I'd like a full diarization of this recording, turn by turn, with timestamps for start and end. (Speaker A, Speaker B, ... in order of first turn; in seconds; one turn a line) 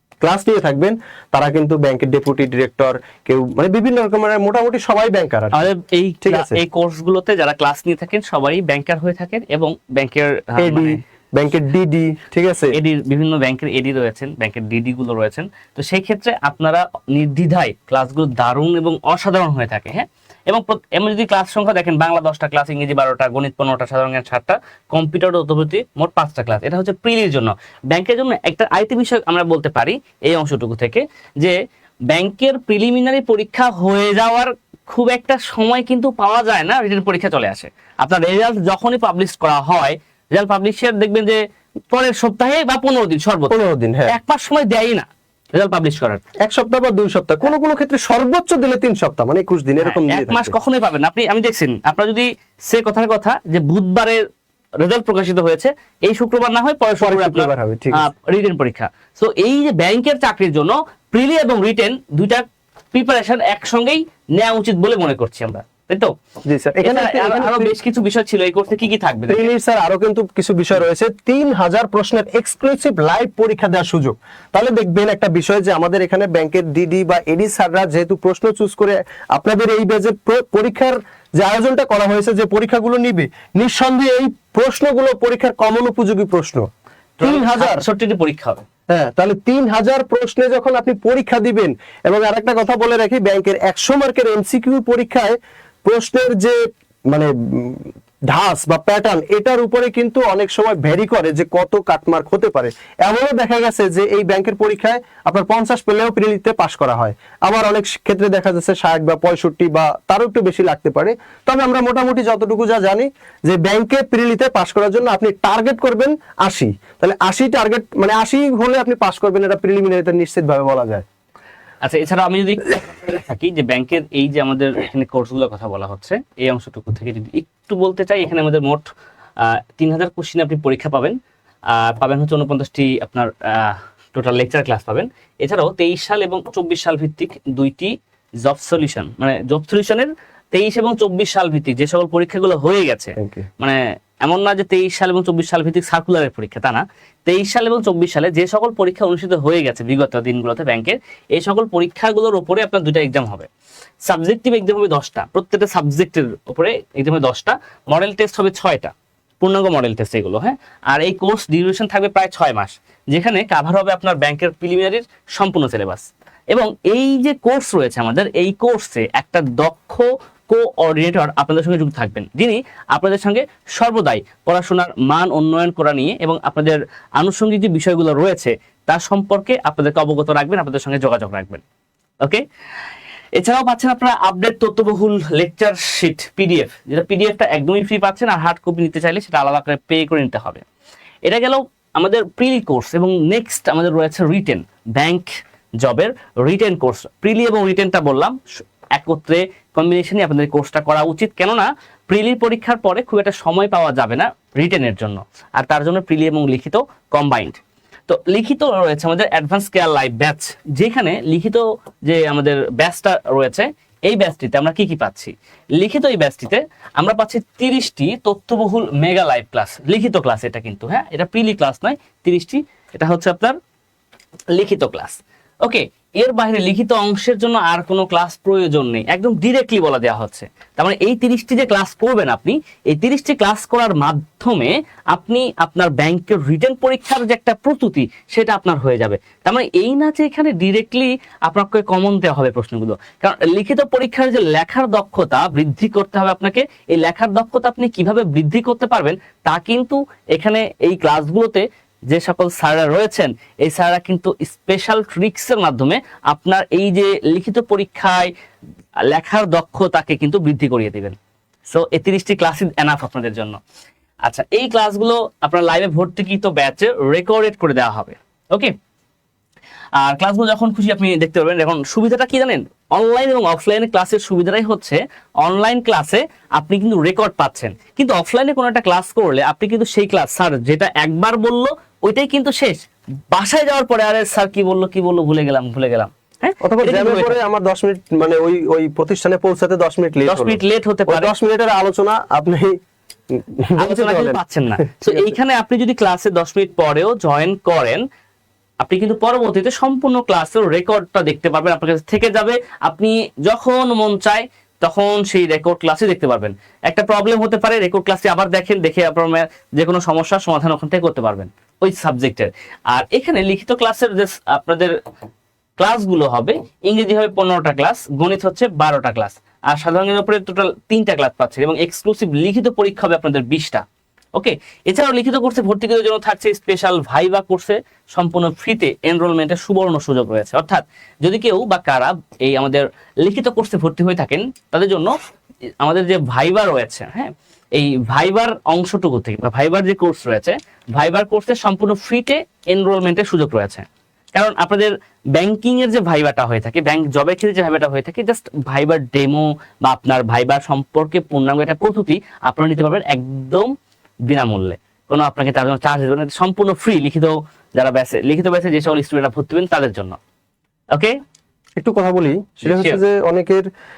Speaker A: 0.2-5.7
Speaker B: 5.5-11.0
Speaker A: 6.2-6.6
Speaker A: 10.6-12.7
Speaker B: 12.7-31.6
Speaker B: 32.1-46.2
Speaker A: 43.5-44.1
Speaker A: 46.4-50.6
Speaker B: 49.8-54.2
Speaker B: 54.8-66.1
Speaker A: 57.0-58.0
Speaker A: 66.5-67.7
Speaker B: 66.8-69.5
Speaker A: 69.3-86.7
Speaker B: 87.2-88.6
Speaker A: 87.2-87.8
Speaker A: 88.9-95.3
Speaker A: 95.8-96.6
Speaker A: 97.1-121.0
Speaker B: 121.8-128.9
Speaker B: 129.4-131.2
Speaker B: 131.7-153.5
Speaker A: 143.2-143.5
Speaker B: 154.1-181.6
Speaker B: 183.4-190.7
Speaker B: 191.2-223.6
Speaker B: 224.5-258.3
Speaker B: 259.1-261.2
Speaker B: 261.7-263.6
Speaker B: 264.2-268.8
Speaker B: 270.0-287.4
Speaker A: 286.6-292.8
Speaker B: 290.3-291.3
Speaker A: 293.3-295.4
Speaker B: 293.8-298.0
Speaker B: 298.8-315.0
Speaker B: 315.8-335.1
Speaker B: 335.8-353.7
Speaker B: 354.3-360.2
Speaker A: 361.8-363.6
Speaker B: 362.6-363.0